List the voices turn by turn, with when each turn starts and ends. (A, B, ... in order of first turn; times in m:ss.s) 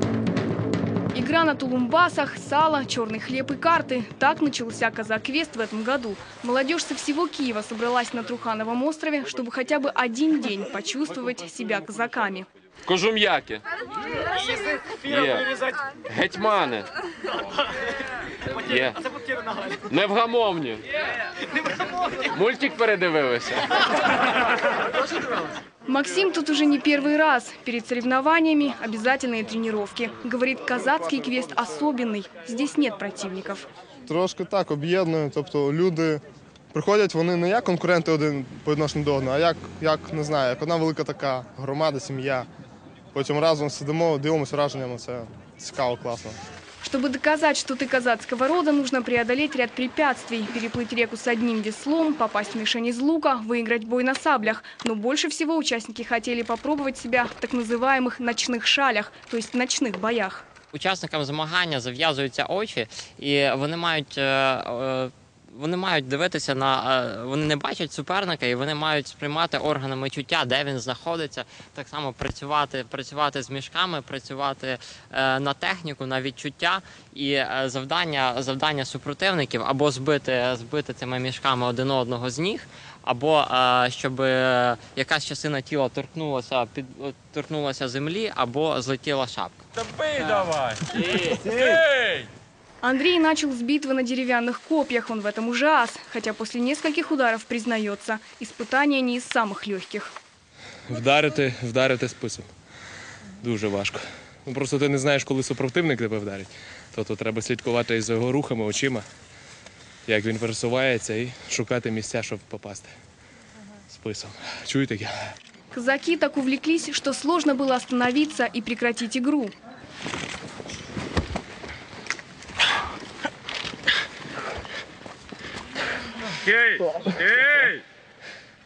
0:01.1-0:12.5 A
0:12.9-0:13.6 B
0:15.0-0:15.5 B
0:16.1-0:16.9 B
0:18.6-0:19.0 B
0:19.9-0:20.8 B
0:22.3-0:23.7 B
0:25.9-0:33.7 A
0:34.1-0:42.5 C
0:43.1-0:46.4 C
0:46.8-1:00.4 A
1:00.7-1:29.6 D
1:29.8-1:32.3 B
1:30.2-1:31.6 D
1:32.8-1:40.1 A
1:40.9-1:42.5 E
1:43.4-1:49.0 E
1:50.1-1:52.9 E
1:53.9-1:55.1 E
1:55.7-1:59.5 A
2:06.4-2:07.8 B